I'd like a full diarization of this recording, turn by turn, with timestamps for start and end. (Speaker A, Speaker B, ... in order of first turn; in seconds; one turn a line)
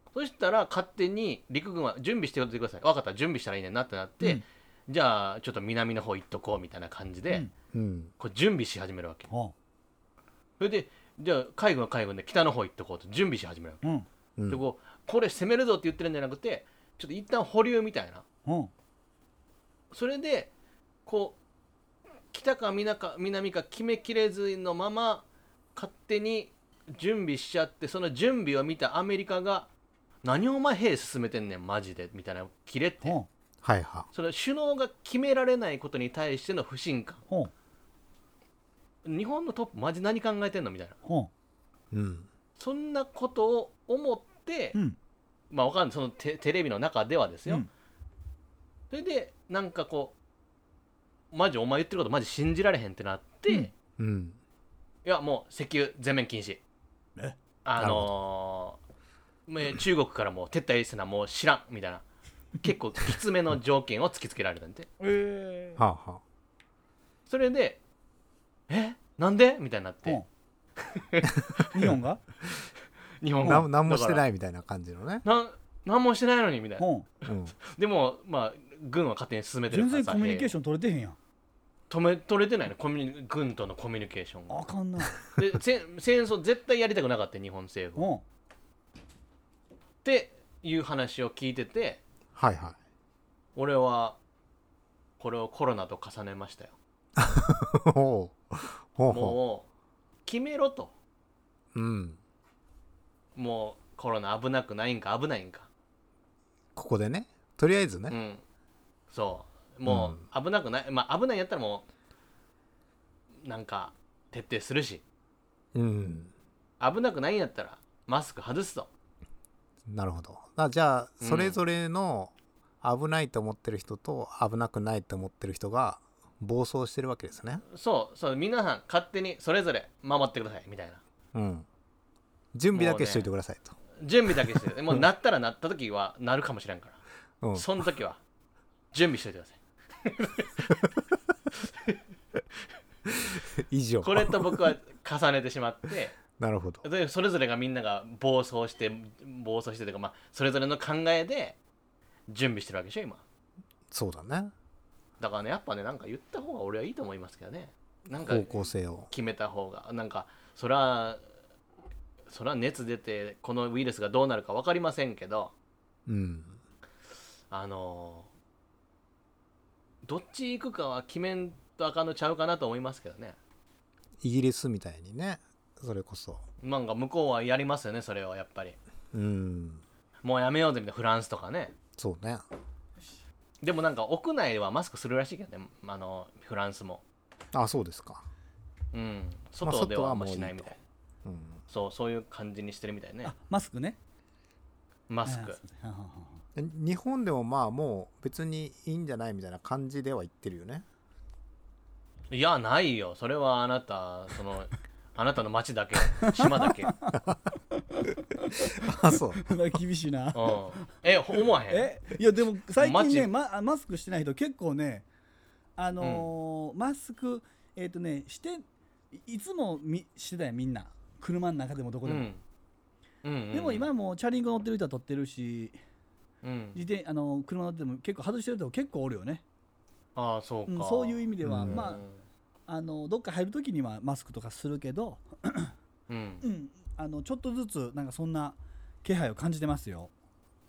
Speaker A: 0.1-7.5
Speaker B: 7.7-8.1
Speaker A: 8.2-9.3
Speaker A: 10.6-13.8
Speaker B: 14.4-14.6
Speaker A: 14.5-18.2
Speaker C: 18.4-18.7
Speaker A: 19.9-20.5
Speaker A: 21.1-21.4
Speaker A: 22.3-25.2
Speaker A: 25.8-29.7
Speaker A: 30.2-33.2
Speaker C: 33.0-33.3
Speaker B: 33.6-34.1
Speaker A: 34.1-37.2
Speaker A: 39.0-41.0
Speaker C: 41.0-41.3
Speaker B: 41.9-42.3
Speaker A: 42.6-44.8
Speaker A: 45.5-47.7
Speaker A: 48.9-50.1
Speaker A: 51.3-53.7
Speaker B: 54.0-54.4
Speaker A: 55.0-56.6
Speaker A: 57.6-58.8
Speaker B: 57.8-58.1
Speaker A: 59.5-62.0
Speaker A: 62.6-64.9
Speaker C: 65.0-65.8
Speaker B: 65.8-66.2
Speaker A: 67.3-67.8
Speaker A: 68.7-70.2
Speaker A: 70.8-71.9
Speaker C: 71.7-72.2
Speaker A: 73.2-74.2
Speaker B: 73.4-75.2
Speaker A: 75.2-80.5
Speaker C: 76.8-77.1
Speaker B: 77.3-77.5
Speaker C: 79.7-81.2
Speaker A: 81.9-84.7
Speaker C: 84.5-85.3
Speaker A: 85.2-88.1
Speaker C: 88.0-88.2
Speaker A: 90.0-92.0
Speaker B: 92.3-92.8
Speaker A: 93.6-94.2
Speaker A: 95.2-96.8
Speaker B: 97.2-99.4
Speaker A: 99.1-99.7
Speaker A: 100.3-100.9
Speaker B: 101.7-102.2
Speaker A: 103.4-105.7
Speaker B: 106.8-108.2
Speaker A: 108.1-108.4
Speaker A: 109.1-111.9
Speaker B: 109.9-110.2
Speaker A: 113.4-115.0
Speaker B: 115.7-116.3
Speaker A: 116.8-118.9
Speaker B: 119.9-127.6
Speaker A: 121.2-121.6
Speaker A: 127.7-131.0
Speaker B: 131.3-131.7
Speaker B: 132.5-133.8
Speaker A: 132.7-133.3
Speaker A: 134.0-137.0
Speaker B: 137.4-137.7
Speaker A: 137.5-138.2
Speaker A: 138.9-140.9
Speaker A: 141.6-142.0
Speaker B: 143.1-144.7
Speaker A: 144.0-146.2
Speaker B: 146.3-146.8
Speaker A: 146.8-151.6
Speaker A: 152.3-153.2
Speaker B: 153.9-154.5
Speaker A: 155.2-161.2
Speaker B: 158.2-159.1
Speaker A: 162.3-165.5
Speaker B: 166.1-166.6
Speaker A: 167.5-168.3
Speaker A: 170.0-173.4
Speaker B: 174.2-176.4
Speaker A: 176.6-178.8
Speaker B: 179.1-179.8
Speaker A: 180.2-181.7
Speaker B: 182.0-182.4
Speaker A: 183.6-187.0
Speaker B: 187.5-188.2
Speaker A: 188.9-190.8
Speaker B: 189.6-191.6
Speaker A: 191.7-193.3
Speaker C: 193.3-194.0
Speaker A: 195.1-195.6
Speaker C: 195.2-196.4
Speaker B: 196.6-200.8
Speaker A: 202.3-206.9
Speaker C: 206.1-207.2
Speaker C: 207.8-215.1
Speaker B: 208.7-209.4
Speaker A: 210.3-212.1
Speaker A: 212.8-213.3
Speaker C: 215.8-222.3
Speaker A: 216.0-216.3
Speaker A: 222.1-222.4
Speaker A: 223.2-223.9
Speaker C: 223.5-225.8
Speaker A: 226.4-226.8
Speaker C: 226.7-229.4
Speaker A: 230.2-232.2
Speaker C: 230.7-232.0
Speaker B: 231.4-231.8
Speaker C: 232.7-235.7
Speaker A: 236.1-236.4
Speaker C: 236.4-240.1